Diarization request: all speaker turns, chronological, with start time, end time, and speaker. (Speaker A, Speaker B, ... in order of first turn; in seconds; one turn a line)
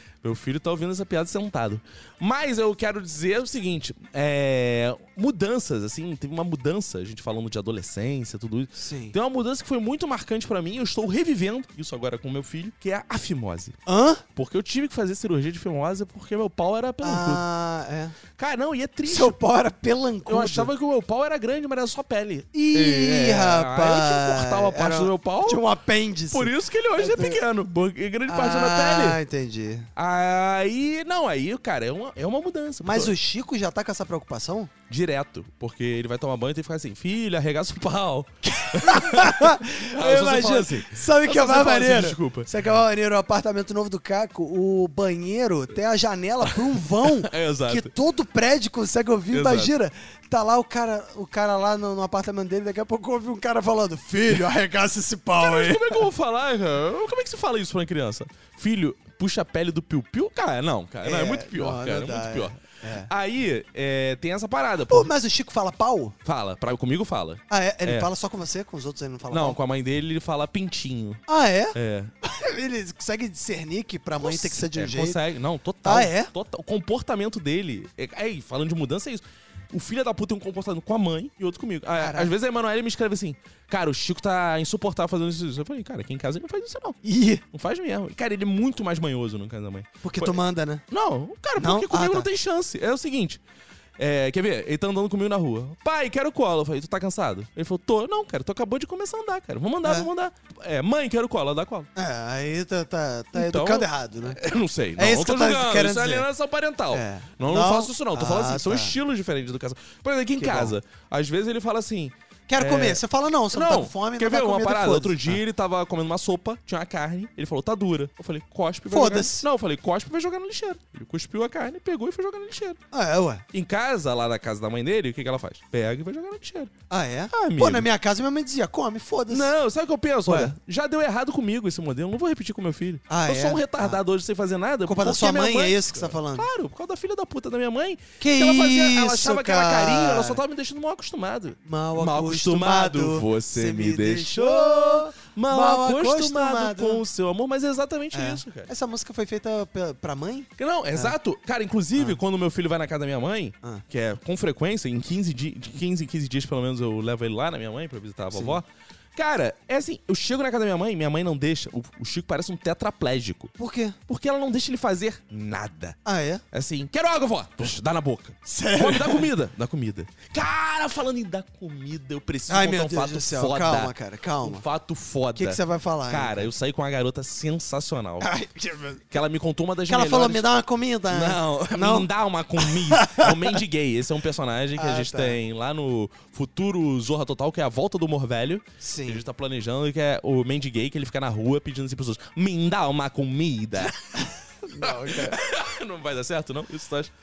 Speaker A: 0.2-13.8
Speaker B: 8.7-9.1
Speaker B: 13.9-14.2
Speaker A: 14.3-17.4
Speaker B: 17.0-18.1
Speaker A: 18.4-19.4
Speaker B: 19.1-20.7
Speaker A: 20.3-25.6
Speaker B: 22.5-27.4
Speaker A: 26.3-29.2
Speaker B: 28.3-29.9
Speaker A: 29.9-33.1
Speaker B: 32.8-34.7
Speaker A: 34.9-42.5
Speaker B: 38.5-56.1
Speaker A: 47.0-47.9
Speaker A: 49.3-49.7
Speaker A: 55.4-65.1
Speaker B: 61.0-63.1
Speaker B: 64.9-66.1
Speaker A: 66.2-68.1
Speaker B: 67.5-69.6
Speaker A: 69.3-71.2
Speaker B: 71.3-75.2
Speaker A: 71.7-72.1
Speaker A: 74.2-87.0
Speaker B: 75.8-76.3
Speaker B: 82.0-82.3
Speaker B: 87.0-87.4
Speaker A: 87.5-90.4
Speaker B: 90.0-90.8
Speaker A: 90.9-93.4
Speaker B: 91.5-92.3
Speaker A: 94.0-101.9
Speaker B: 101.9-104.4
Speaker A: 103.3-122.8
Speaker B: 105.0-106.3
Speaker B: 106.9-109.0
Speaker B: 110.4-110.8
Speaker B: 112.5-115.4
Speaker B: 118.9-119.5
Speaker B: 122.9-123.4
Speaker A: 123.5-126.7
Speaker B: 126.9-129.5
Speaker A: 127.3-127.9
Speaker A: 129.3-148.7
Speaker B: 130.3-130.5
Speaker B: 133.1-134.0
Speaker B: 134.8-136.5
Speaker B: 138.2-140.4
Speaker B: 141.6-147.0
Speaker B: 148.1-151.1
Speaker A: 150.6-163.5
Speaker B: 158.3-158.6
Speaker B: 163.6-164.0
Speaker A: 164.1-166.0
Speaker B: 166.1-166.4
Speaker A: 166.5-178.3
Speaker B: 168.4-169.3
Speaker B: 172.5-174.6
Speaker B: 175.4-176.5
Speaker B: 178.2-179.1
Speaker A: 179.1-180.4
Speaker B: 179.9-183.6
Speaker A: 181.1-194.3
Speaker B: 184.8-185.4
Speaker B: 188.8-189.2
Speaker B: 194.6-195.4
Speaker A: 194.8-197.1